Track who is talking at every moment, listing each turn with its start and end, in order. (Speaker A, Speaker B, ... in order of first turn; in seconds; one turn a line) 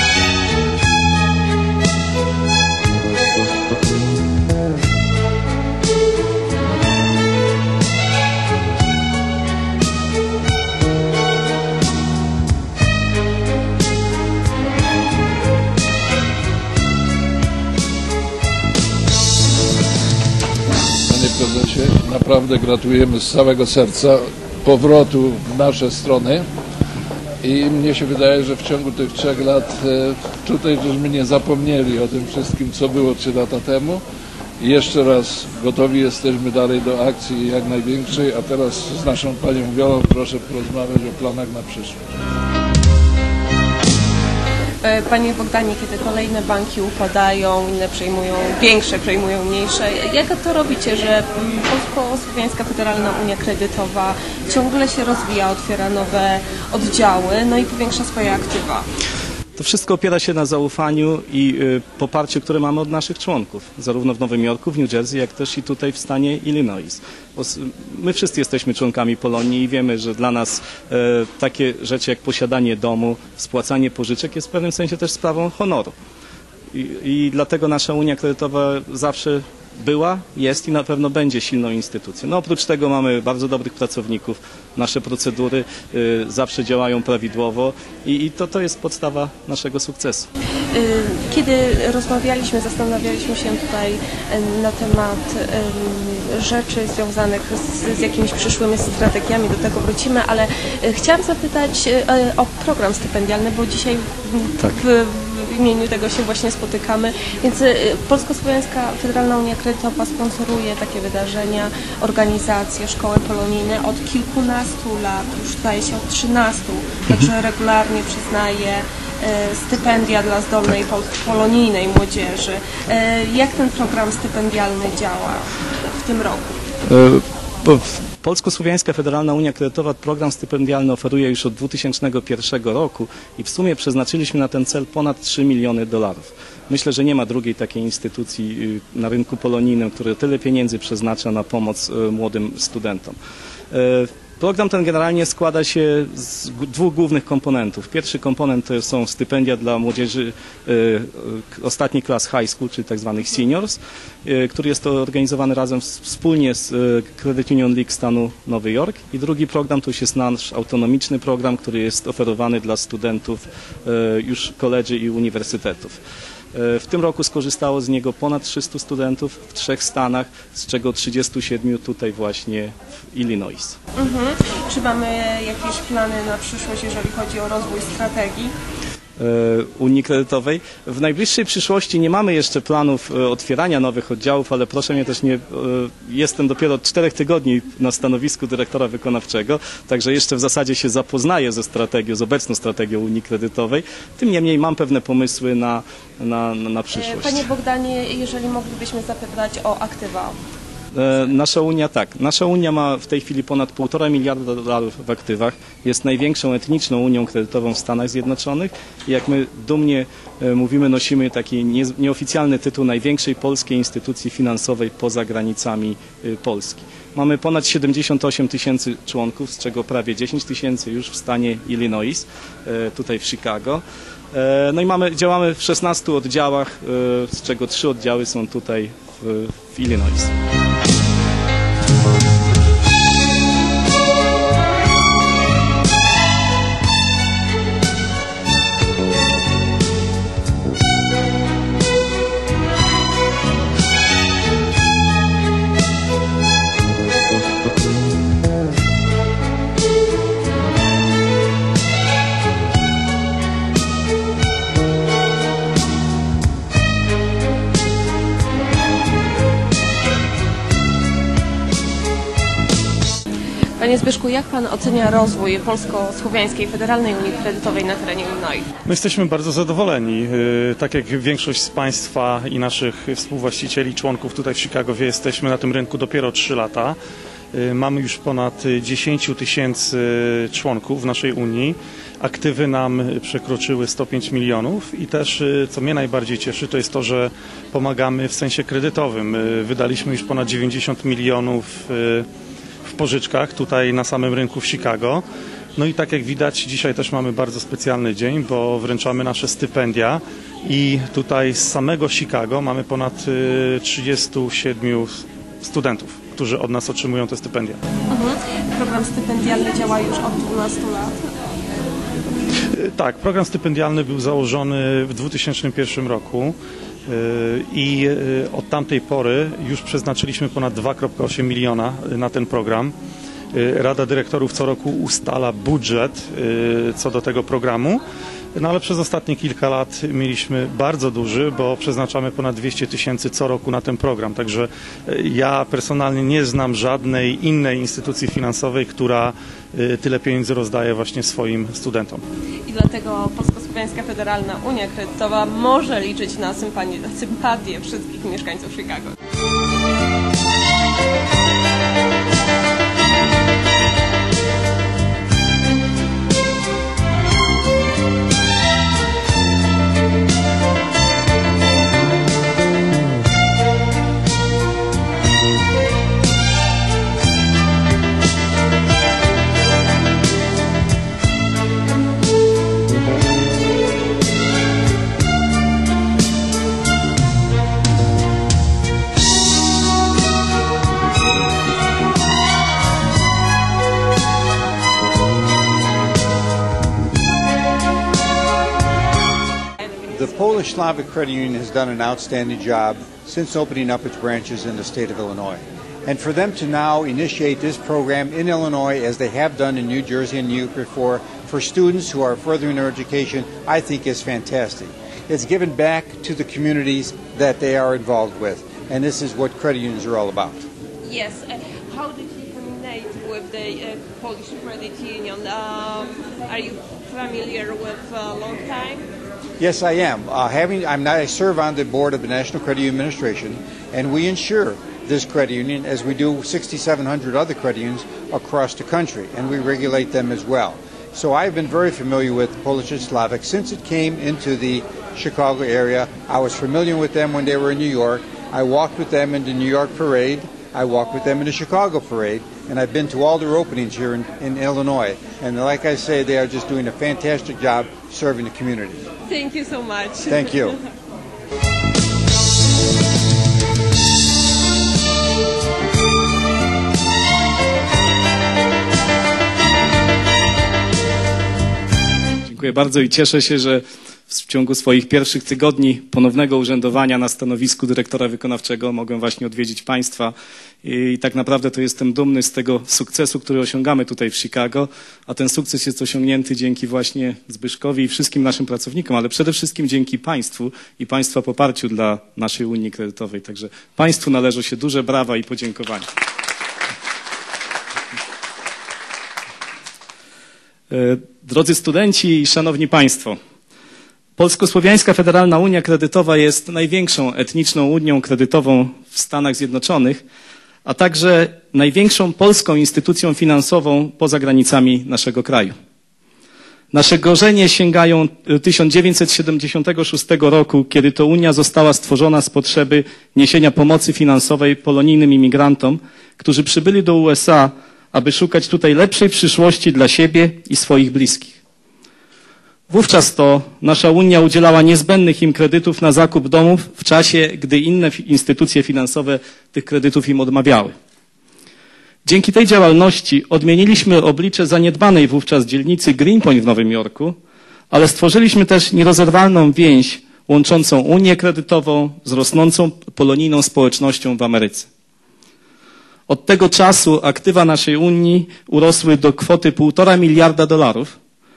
Speaker A: 21.1-26.5
Speaker A: 27.4-34.0
Speaker A: 34.6-42.0
Speaker B: 44.8-58.9
Speaker C: 59.6-76.0
Speaker C: 76.7-90.3
Speaker B: 90.7-126.5
Speaker C: 126.9-143.2
Speaker C: 143.7-166.0
Speaker C: 166.5-173.8
Speaker B: 174.0-178.5
Speaker C: 179.2-197.4
Speaker B: 196.9-200.4
Speaker C: 200.9-230.3
Speaker B: 263.8-268.7
Speaker D: 268.9-277.0
Speaker D: 277.5-292.3
Speaker D: 292.9-295.2
Speaker D: 295.8-307.8
Speaker B: 308.1-311.3
Speaker D: 312.8-316.6
Speaker D: 317.1-322.9
Speaker D: 323.5-328.0
Speaker D: 328.6-342.2
Speaker B: 342.7-349.1
Speaker B: 389.9-390.5
Speaker E: 390.1-410.6
Speaker B: 411.0-419.1
Speaker E: 419.6-449.1
Speaker B: 449.3-450.8
Speaker E: 450.3-450.8
Speaker C: 462.4-486.1
Speaker C: 490.9-493.4
Speaker C: 494.4-500.2
Speaker C: 500.9-505.8
Speaker C: 506.9-521.6
Speaker C: 522.9-531.0
Speaker C: 532.2-537.4
Speaker C: 537.9-544.9
Speaker C: 546.3-551.2